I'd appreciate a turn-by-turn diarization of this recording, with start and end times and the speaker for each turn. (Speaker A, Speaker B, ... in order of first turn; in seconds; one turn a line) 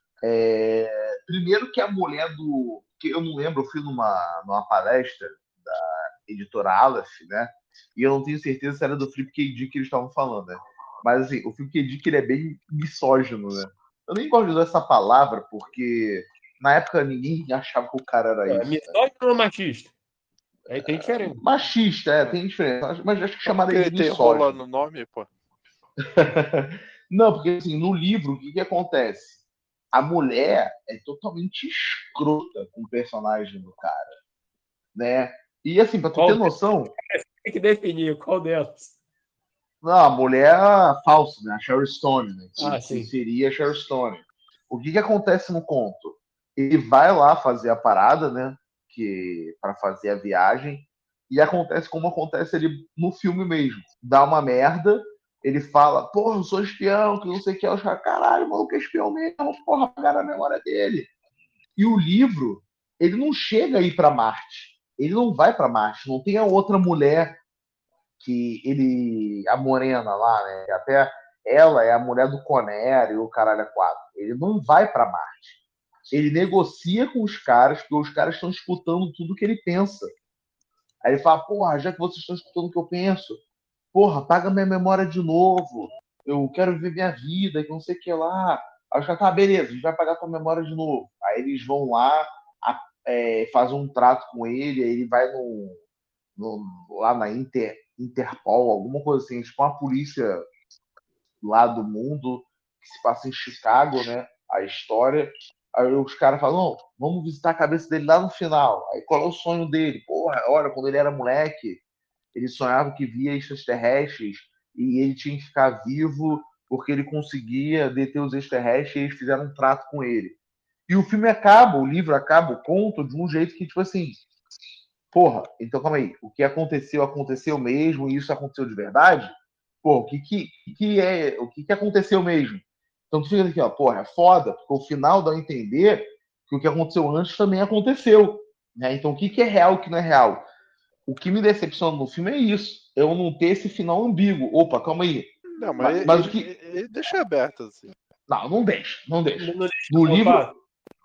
Speaker A: 0.2-19.0
Speaker B: 18.5-19.9
Speaker B: 20.7-21.4
Speaker A: 20.7-24.6
Speaker C: 23.4-25.3
Speaker A: 26.0-29.4
Speaker A: 29.9-34.1
Speaker A: 35.0-36.9
Speaker B: 36.1-36.5
Speaker B: 37.1-38.9
Speaker A: 39.8-61.1
Speaker B: 42.6-43.1
Speaker A: 61.8-67.4
Speaker A: 68.2-80.1
Speaker A: 81.0-83.4
Speaker A: 83.9-95.8
Speaker A: 96.4-100.4
Speaker A: 101.4-111.8
Speaker A: 112.3-124.2
Speaker A: 125.1-129.3
Speaker A: 129.8-140.4
Speaker A: 141.1-146.4
Speaker C: 145.6-147.9
Speaker A: 148.3-150.5
Speaker B: 149.4-150.5